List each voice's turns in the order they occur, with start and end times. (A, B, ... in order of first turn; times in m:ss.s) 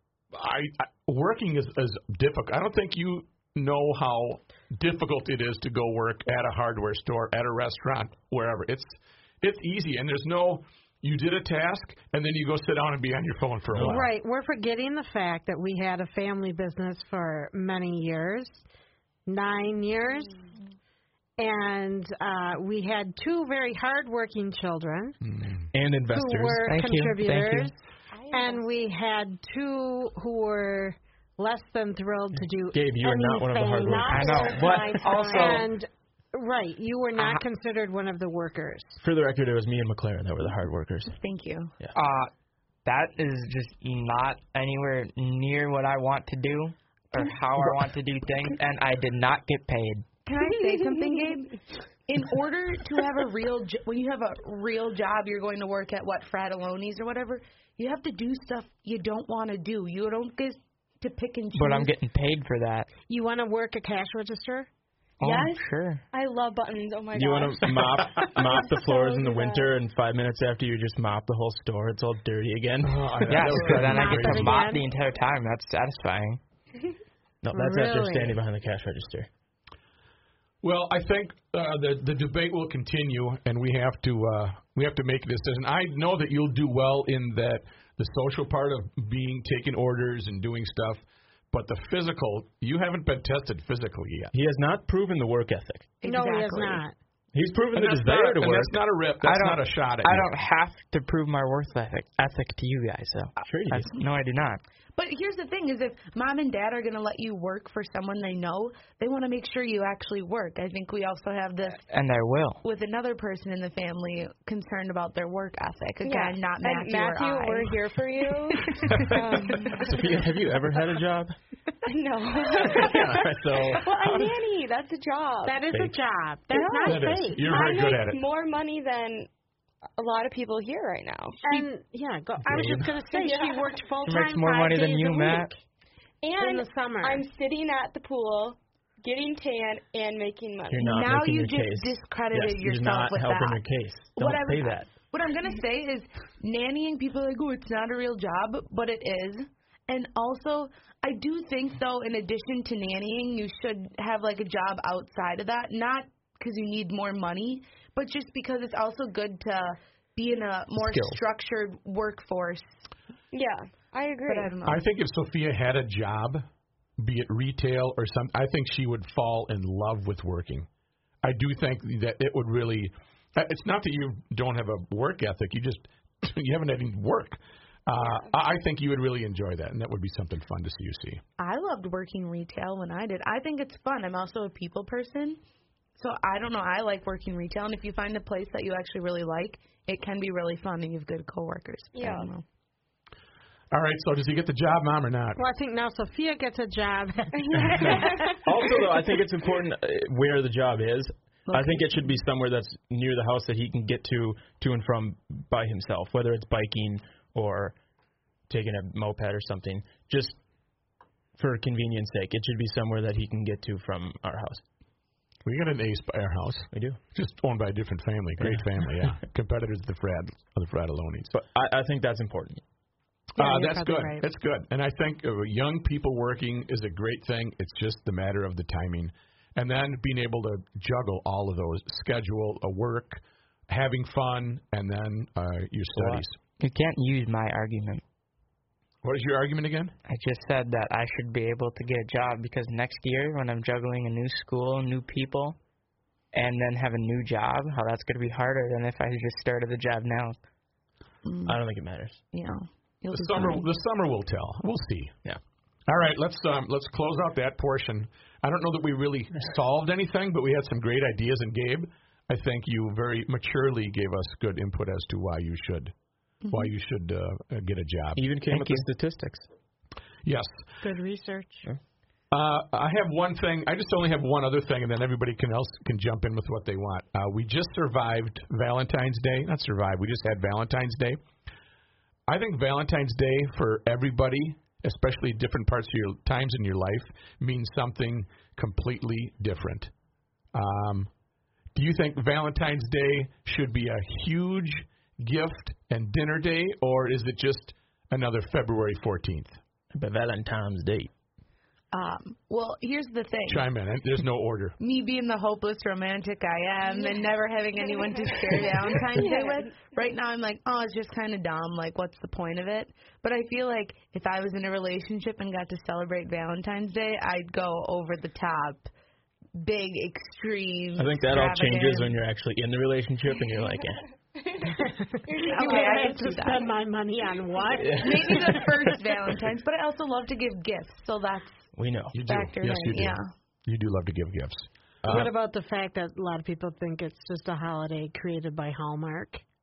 0:00.3-0:14.1 A
0:13.7-0:14.0 B
0:13.8-0:18.6 C
0:19.3-0:20.5 C
0:21.4-0:25.2 C
0:25.2-0:25.7 A
0:25.7-0:26.7 B
0:26.1-0:27.8 C
0:26.7-0:27.7 D
0:28.1-0:28.7 E
0:28.3-0:39.0 C
0:32.7-0:34.8 B
0:34.1-0:35.7 D
0:39.0-0:41.2 B
0:41.2-0:41.7 F
0:42.0-0:42.3 D
0:42.8-0:50.1 D
0:50.3-1:01.9 F
1:01.5-1:02.9 D
1:03.1-1:04.7 C
1:05.2-1:06.0 D
1:05.2-1:09.7 E
1:07.1-1:13.6 B
1:12.8-1:14.7 A
1:13.2-1:16.4 D
1:13.8-1:14.9 C
1:17.4-1:19.3 B
1:17.5-1:18.4 C
1:20.6-1:34.3 A
1:34.3-1:35.9 B
1:36.0-1:36.8 F
1:36.0-1:37.0 C
1:37.3-1:38.8 B
1:37.7-1:40.3 A
1:39.2-1:44.6 D
1:43.4-1:44.0 B
1:45.0-1:51.8 F
1:51.9-1:52.6 D
1:52.6-1:57.8 F
1:56.0-2:00.0 E
1:58.5-1:59.2 F
1:58.8-1:59.2 A
1:59.8-2:01.4 B
2:01.8-2:05.7 E
2:02.6-2:04.0 B
2:05.4-2:07.5 C
2:06.5-2:09.3 E
2:06.8-2:08.2 A
2:10.0-2:11.7 E
2:11.4-2:15.6 C
2:12.4-2:13.0 B
2:13.0-2:13.8 E
2:14.1-2:15.5 D
2:16.2-2:20.9 E
2:16.3-2:17.3 C
2:20.7-2:24.9 B
2:20.8-2:23.6 F
2:24.2-2:42.8 F
2:40.8-2:41.2 B
2:43.3-2:44.6 E
2:44.3-2:44.8 F
2:44.6-2:46.4 A
2:47.0-2:50.7 A
2:51.2-3:01.2 A
3:01.4-3:05.4 F
3:06.0-3:12.4 F
3:11.9-3:12.3 E
3:13.7-3:15.4 A
3:15.4-3:18.2 C
3:17.4-3:18.4 E
3:17.6-3:27.8 B
3:21.5-3:22.0 F
3:28.5-3:30.4 B
3:31.4-3:34.6 B
3:35.4-3:41.3 A
3:36.7-3:37.0 B
3:38.4-3:39.1 B
3:41.3-3:42.6 B
3:43.4-3:44.3 C
3:43.4-3:56.4 A
3:55.9-3:56.2 B
3:56.6-3:58.0 D
3:59.0-3:59.9 A
4:00.1-4:05.6 D
4:06.3-4:10.4 D
4:11.2-4:11.6 F
4:11.4-4:12.2 B
4:12.3-4:13.7 F
4:13.1-4:15.2 A
4:15.9-4:25.9 A
4:26.5-4:26.7 F
4:26.5-4:28.3 A
4:28.2-4:29.5 B
4:28.5-4:28.9 D
4:30.2-4:30.6 A
4:30.8-4:31.7 C
4:32.3-4:41.2 A
4:42.3-4:49.9 A
4:50.5-4:51.1 A
4:51.8-4:59.6 A
4:59.9-5:01.1 B
5:01.9-5:03.7 F
5:03.5-5:04.8 A
5:04.8-5:18.9 F
5:06.9-5:07.2 E
5:07.9-5:09.9 E
5:19.6-5:22.2 F
5:21.0-5:24.1 B
5:24.4-5:26.5 E
5:24.7-5:28.7 C
5:25.4-5:26.7 F
5:27.8-5:28.9 B
5:28.0-5:31.7 F
5:31.8-5:32.2 B
5:32.1-5:35.3 A
5:32.2-5:33.3 F
5:35.0-5:35.3 B
5:35.1-5:39.4 C